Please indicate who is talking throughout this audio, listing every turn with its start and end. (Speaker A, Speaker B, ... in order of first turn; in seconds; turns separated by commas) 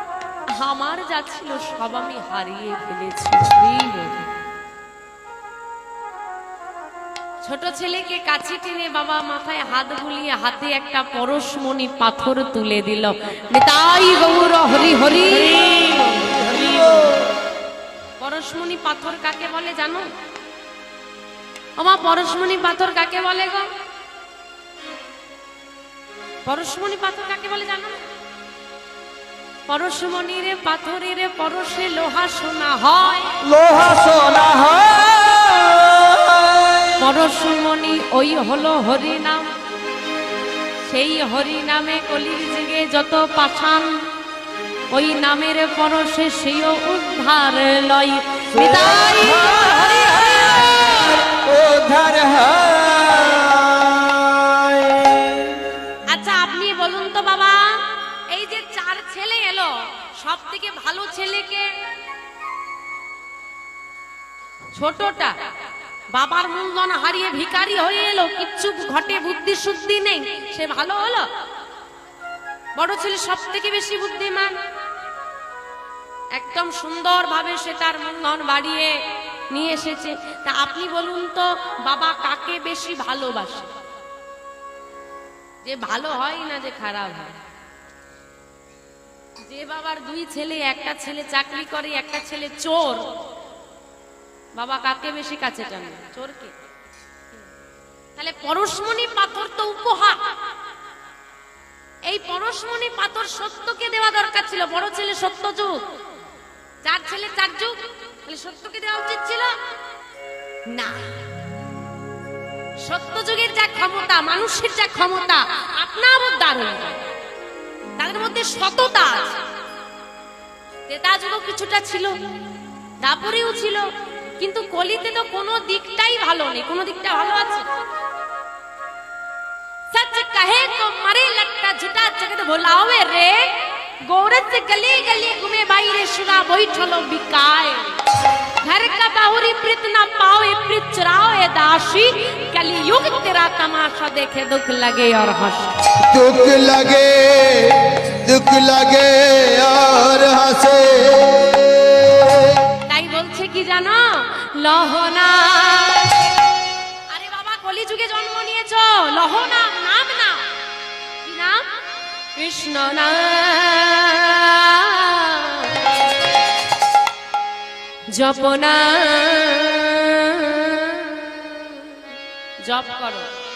Speaker A: 0.6-4.3, Speaker A: 7.4-17.2, Speaker A: 18.2-20.1, Speaker A: 21.8-23.7, Speaker A: 26.4-28.0, Speaker A: 29.7-33.4, Speaker B: 33.5-36.9, Speaker A: 37.0-39.5, Speaker A: 40.8-44.0, Speaker A: 44.9-51.1, Speaker C: 51.4-52.1, Speaker B: 51.7-53.2, Speaker C: 52.9-54.9, Speaker A: 56.1-61.7, Speaker A: 64.7-65.4, Speaker A: 66.1-71.3, Speaker A: 72.8-74.6, Speaker A: 76.3-79.0, Speaker A: 79.5-83.7, Speaker A: 85.6-87.4, Speaker A: 89.5-93.0, Speaker A: 94.5-96.5, Speaker A: 98.2-100.3, Speaker A: 102.0-105.8, Speaker A: 106.8-109.6, Speaker A: 110.7-111.1, Speaker A: 112.8-117.0, Speaker A: 118.0-119.4, Speaker A: 120.9-122.2, Speaker A: 123.0-123.9, Speaker A: 124.4-127.7, Speaker A: 129.9-138.0, Speaker A: 138.6-145.8, Speaker C: 146.0-152.6, Speaker A: 152.8-156.3, Speaker A: 157.1-160.5, Speaker A: 161.2-161.7, Speaker A: 162.3-166.0, Speaker A: 168.1-172.0, Speaker A: 172.6-173.3